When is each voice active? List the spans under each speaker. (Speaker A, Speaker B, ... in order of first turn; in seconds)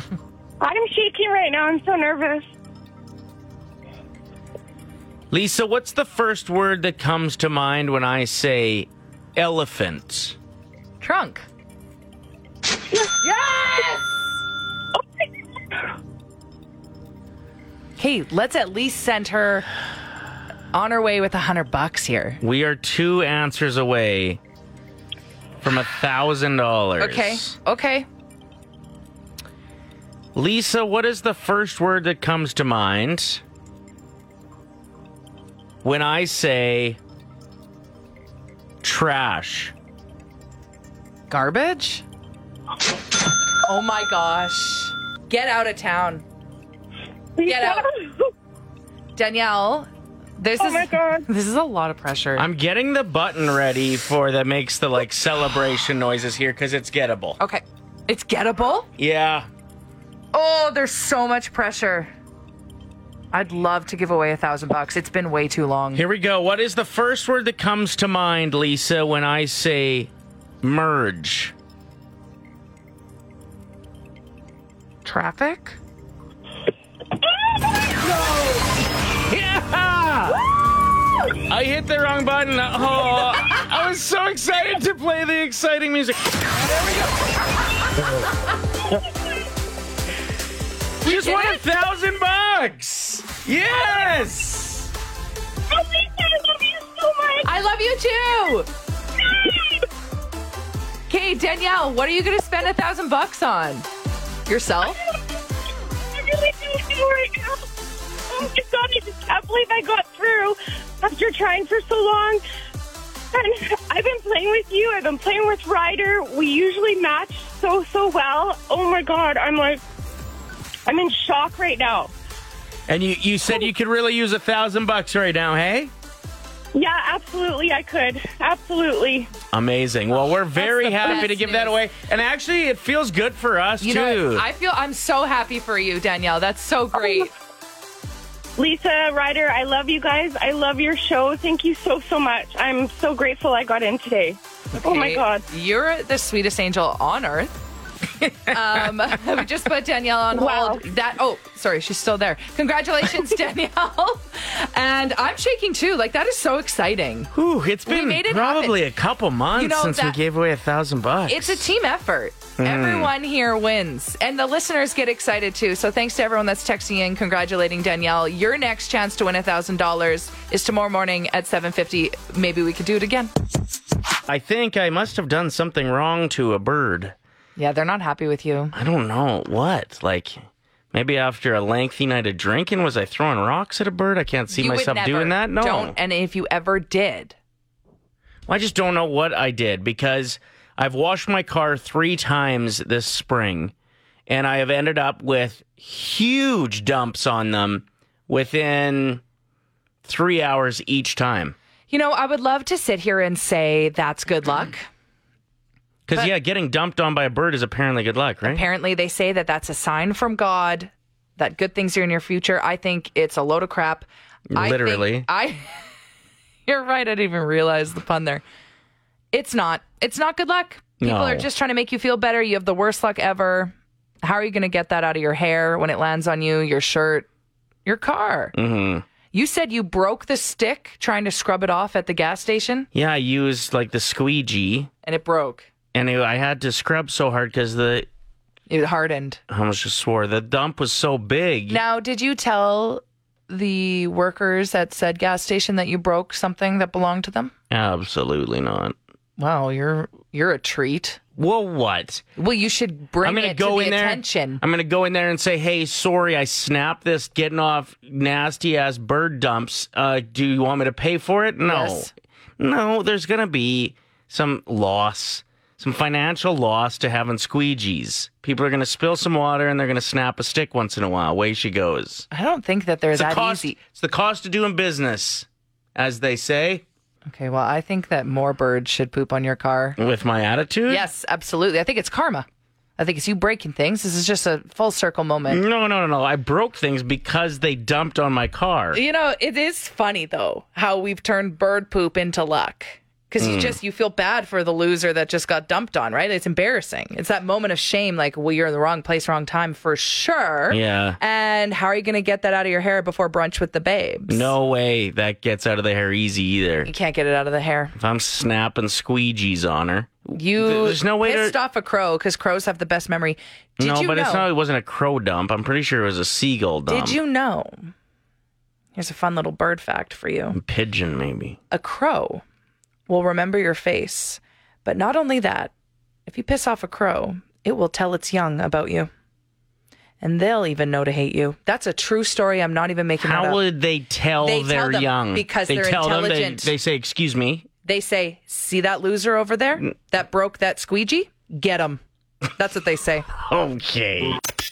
Speaker A: 0.6-2.5, 47.4-48.3, 50.6-51.3, 95.7-97.5, 99.2-99.8, 106.2-107.7, 108.3-112.4, 113.3-119.8, 120.9-122.1, 126.8-129.3, 138.6-145.5, 150.3-150.8
Speaker B: 5.3-10.4, 22.4-24.4, 25.6-27.6, 30.4-33.4, 35.8-37.0, 38.8-39.7, 52.4-57.4, 59.0-59.5, 66.0-70.1, 70.6-71.5, 78.0-80.4, 81.4-87.0, 91.0-94.8, 122.9-125.9, 129.5-134.5, 157.3-161.7, 162.6-163.1, 174.3-177.2, 178.7-180.4, 180.9-186.0, 188.5-193.7, 194.3-199.2, 200.0-201.6, 206.1-208.7, 214.5-215.3, 221.0-221.5, 228.6-229.1, 232.9-234.9, 235.9-238.1, 239.5-241.8, 247.7-248.9, 251.4-252.2, 253.2-272.3, 273.1-276.8, 280.0-281.1, 285.5-289.0, 293.4-293.8, 300.7-301.2, 304.3-306.9, 308.0-311.6, 313.8-317.2, 320.5-321.6, 333.2-337.7, 343.4-344.4
Speaker C: 11.0-11.4, 13.2-14.1, 18.0-19.7, 20.7-22.4, 27.0-28.1, 41.3-42.0, 43.6-46.2, 47.4-47.9, 49.2-49.9, 50.4-52.5, 57.4-58.9, 60.3-62.1, 63.3-66.0, 75.0-75.8, 91.0-91.6, 97.4-98.7, 101.1-103.9, 104.5-105.0, 130.6-131.7, 133.8-137.3, 144.8-147.6, 148.5-157.3, 157.9-158.8, 159.6-160.2, 161.3-173.3, 177.6-178.7, 184.5-187.4, 201.9-204.9, 208.4-215.7, 216.7-218.4, 219.3-227.3, 227.8-228.6, 229.3-232.9, 235.0-235.7, 238.7-239.4, 241.7-247.5, 249.4-251.2, 252.4-254.6, 261.6-262.1, 272.3-273.8, 277.3-280.0, 280.9-282.5, 283.0-285.6, 288.9-304.5, 306.9-307.9, 310.3-314.5, 316.9-317.9, 318.9-320.6, 321.7-322.4, 323.1-325.7, 326.3-329.1, 330.2-333.6, 334.4-336.7, 337.8-342.0, 342.6-343.3